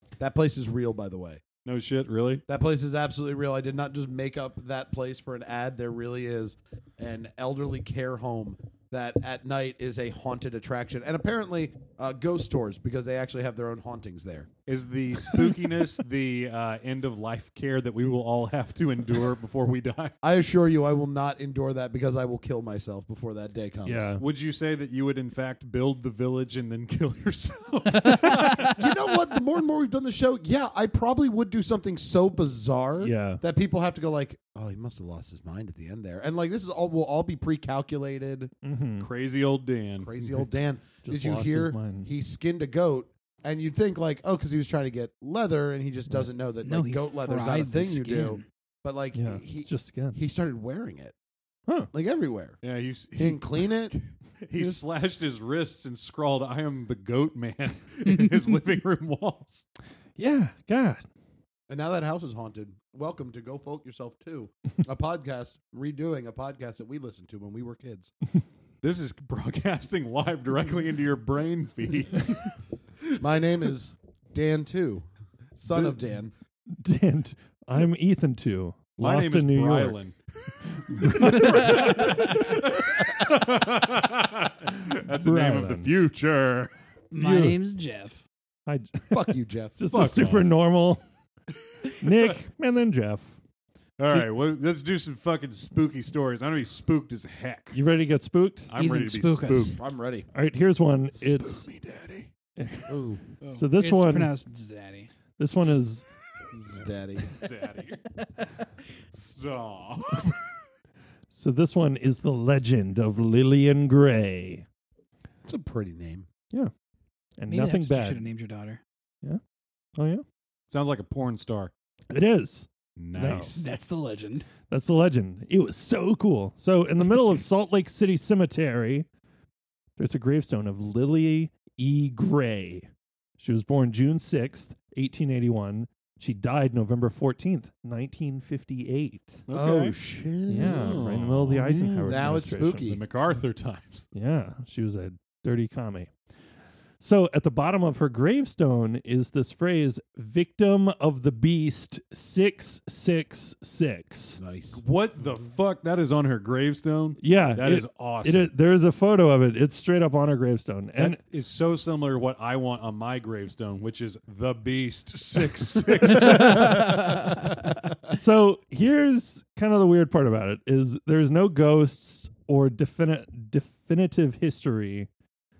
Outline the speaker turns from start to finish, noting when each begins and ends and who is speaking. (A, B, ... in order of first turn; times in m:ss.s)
0:00.2-0:01.4 A
0:01.6-0:02.4 B
0:02.5-0:14.5 A
0:14.7-0:20.1 B
0:20.2-0:24.2 A
0:23.8-0:24.2 C
0:24.2-0:28.8 B
0:28.0-0:28.7 D
0:28.7-0:38.5 A
0:33.0-0:33.4 C
0:38.6-0:39.1 C
0:39.0-0:40.1 B
0:40.0-0:51.1 A
0:41.0-0:42.1 C
0:46.6-0:48.4 D
0:49.1-0:50.2 C
0:51.9-0:52.6 A
0:52.6-0:59.6 B
0:53.2-0:53.9 A
1:00.2-1:01.0 C
1:01.7-1:08.1 A
1:08.8-1:12.6 B
1:13.2-1:16.3 A
1:16.8-1:20.0 C
1:19.0-1:20.2 B
1:20.9-1:22.5 C
1:20.9-1:26.7 B
1:21.2-1:22.1 D
1:25.1-1:25.9 C
1:27.1-1:28.2 D
1:27.1-1:27.6 C
1:28.6-1:31.0 C
1:29.1-1:29.8 A
1:29.9-1:30.5 B
1:31.8-1:32.3 B
1:31.9-1:33.4 C
1:34.0-1:37.8 B
1:37.7-1:38.7 C
1:38.7-1:39.8 B
1:38.8-1:39.8 D
1:39.7-1:40.3 A
1:40.3-1:41.7 C
1:41.2-1:42.3 B
1:42.6-1:44.3 C
1:42.9-1:43.2 A
1:43.4-1:45.1 D
1:45.4-1:46.0 C
1:46.5-1:47.4 A
1:47.2-1:48.1 B
1:49.1-1:50.5 B
1:51.3-1:54.6 C
1:55.4-1:56.3 A
1:57.4-1:58.2 C
1:57.5-1:58.8 D
2:00.0-2:00.2 C
2:00.7-2:01.7 B
2:02.1-2:03.6 C
2:03.0-2:03.6 B
2:03.4-2:04.4 D
2:04.7-2:09.1 C
2:10.0-2:19.4 C
2:19.5-2:20.0 B
2:19.5-2:21.0 A
2:20.5-2:22.8 C
2:20.5-2:24.1 B
2:22.0-2:23.0 A
2:24.1-2:26.1 C
2:27.0-2:34.4 C
2:34.4-2:34.8 A
2:34.7-2:38.5 B
2:37.2-2:41.2 C
2:41.0-2:47.5 B
2:46.0-2:47.5 C
2:46.3-2:46.8 D
2:48.0-2:55.1 C